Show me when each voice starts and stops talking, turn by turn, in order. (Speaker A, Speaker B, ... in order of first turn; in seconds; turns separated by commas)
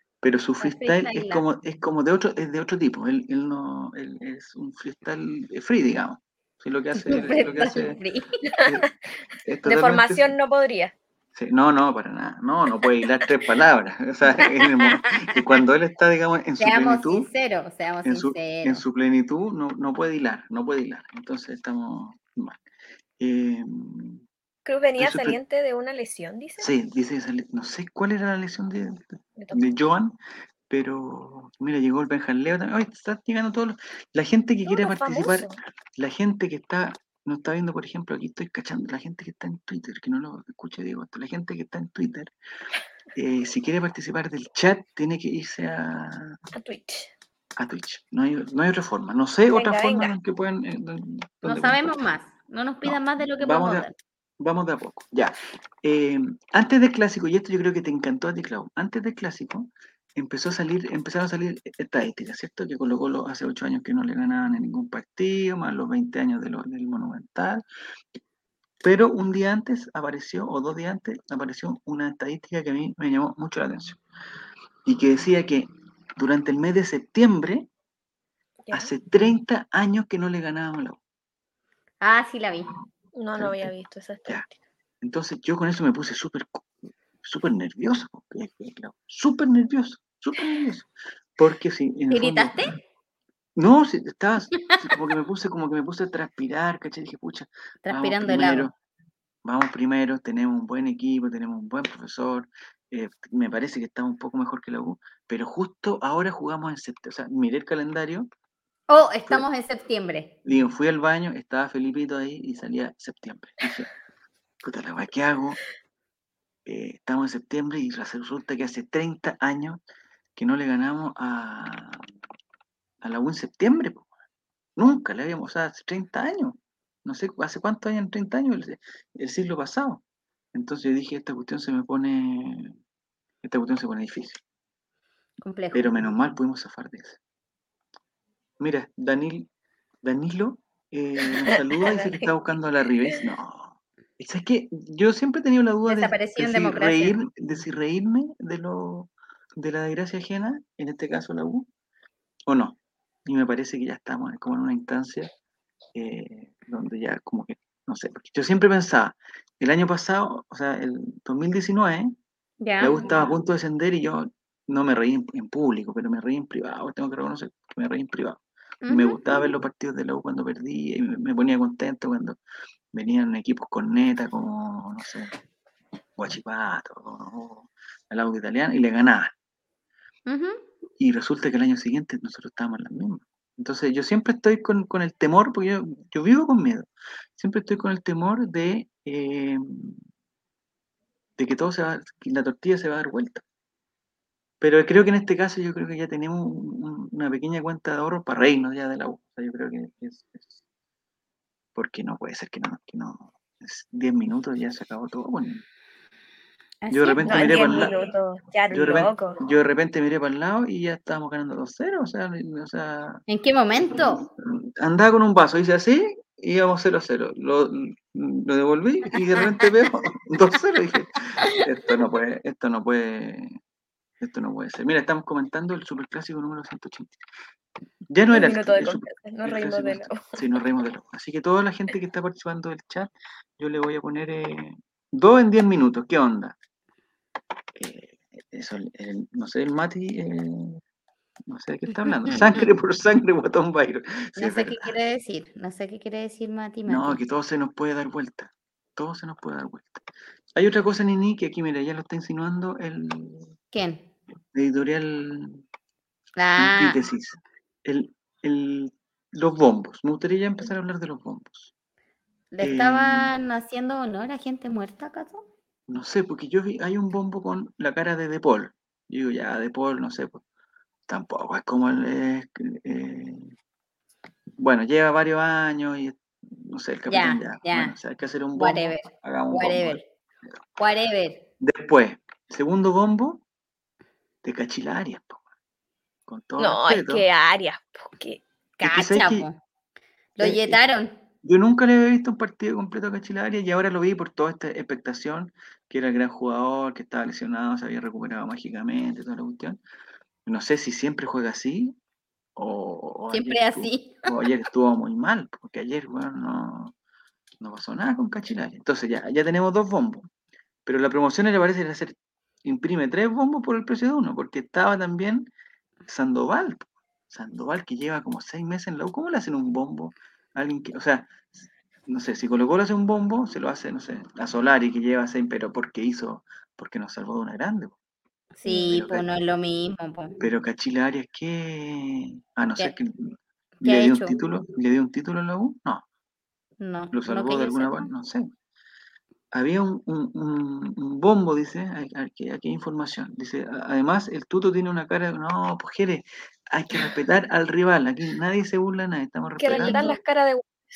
Speaker A: 0.2-8.0, Speaker B: 0.6-1.4, Speaker B: 7.0-8.4, Speaker A: 9.4-10.3, Speaker C: 9.7-10.9, Speaker A: 11.3-17.3, Speaker B: 14.5-14.9, Speaker B: 16.6-18.8, Speaker A: 18.0-22.6, Speaker A: 23.2-24.2, Speaker C: 24.7-26.7, Speaker A: 25.0-25.4, Speaker A: 26.6-30.2, Speaker C: 29.4-29.8, Speaker A: 30.7-42.3, Speaker C: 34.7-35.6, Speaker A: 43.1-46.4, Speaker C: 46.5-47.1, Speaker A: 47.6-52.0, Speaker C: 49.5-50.2, Speaker B: 51.4-53.9, Speaker A: 52.8-53.9, Speaker A: 54.4-67.6, Speaker A: 68.8-74.0, Speaker A: 74.8-77.7, Speaker A: 78.7-81.0, Speaker B: 82.0-82.7, Speaker C: 83.2-84.4, Speaker A: 83.4-83.7, Speaker A: 85.0-86.7, Speaker A: 87.2-92.7, Speaker B: 92.1-92.8, Speaker A: 93.6-98.7, Speaker B: 97.8-98.7, Speaker A: 99.5-108.3, Speaker B: 108.9-110.3, Speaker A: 110.5-113.9, Speaker A: 114.6-115.6, Speaker A: 116.7-119.8, Speaker A: 120.4-122.0, Speaker A: 123.0-124.1, Speaker A: 124.8-130.0, Speaker A: 130.5-132.7, Speaker A: 133.4-134.4, Speaker B: 135.4-136.1, Speaker A: 135.7-137.2, Speaker A: 138.6-139.5, Speaker A: 140.0-151.7, Speaker B: 141.4-142.3, Speaker B: 145.9-147.2, Speaker A: 152.5-155.3, Speaker A: 155.9-162.2, Speaker B: 162.6-163.3, Speaker A: 162.8-172.4, Speaker B: 168.8-169.5, Speaker A: 172.9-175.3, Speaker A: 176.2-179.3, Speaker B: 180.3-180.6, Speaker A: 181.0-190.0, Speaker A: 191.4-193.4, Speaker A: 194.6-200.6, Speaker A: 201.8-205.7, Speaker B: 206.8-208.1, Speaker A: 206.9-207.9, Speaker C: 207.3-209.4, Speaker A: 208.7-213.2, Speaker B: 213.3-214.2, Speaker A: 213.8-223.6, Speaker A: 224.2-227.2, Speaker A: 228.1-236.6, Speaker C: 228.3-230.4, Speaker A: 237.8-240.8, Speaker A: 241.5-244.9, Speaker B: 242.1-242.7, Speaker B: 244.4-247.2, Speaker A: 246.9-253.5, Speaker B: 253.7-254.1, Speaker A: 254.5-255.6, Speaker B: 256.4-257.0, Speaker A: 256.6-261.7, Speaker B: 262.5-265.5, Speaker A: 262.6-263.3, Speaker A: 265.9-270.4, Speaker A: 271.1-273.5, Speaker A: 274.6-280.6, Speaker B: 277.1-277.9, Speaker B: 278.6-280.0, Speaker B: 280.8-281.5, Speaker A: 281.6-283.4, Speaker A: 284.4-285.4, Speaker A: 286.3-287.2, Speaker C: 286.6-288.4, Speaker B: 288.8-289.6, Speaker A: 288.8-289.5, Speaker B: 290.4-291.1, Speaker A: 290.4-290.8, Speaker A: 291.4-299.8, Speaker A: 300.5-302.0, Speaker A: 302.6-306.9, Speaker B: 303.3-304.3, Speaker A: 307.6-310.3, Speaker A: 310.9-315.5, Speaker A: 316.1-328.0, Speaker B: 328.6-330.4, Speaker A: 328.7-329.3, Speaker A: 330.4-336.1, Speaker B: 333.8-334.4, Speaker B: 336.8-338.1, Speaker A: 337.1-338.5, Speaker A: 339.5-350.1, Speaker C: 349.6-350.7, Speaker B: 349.7-350.1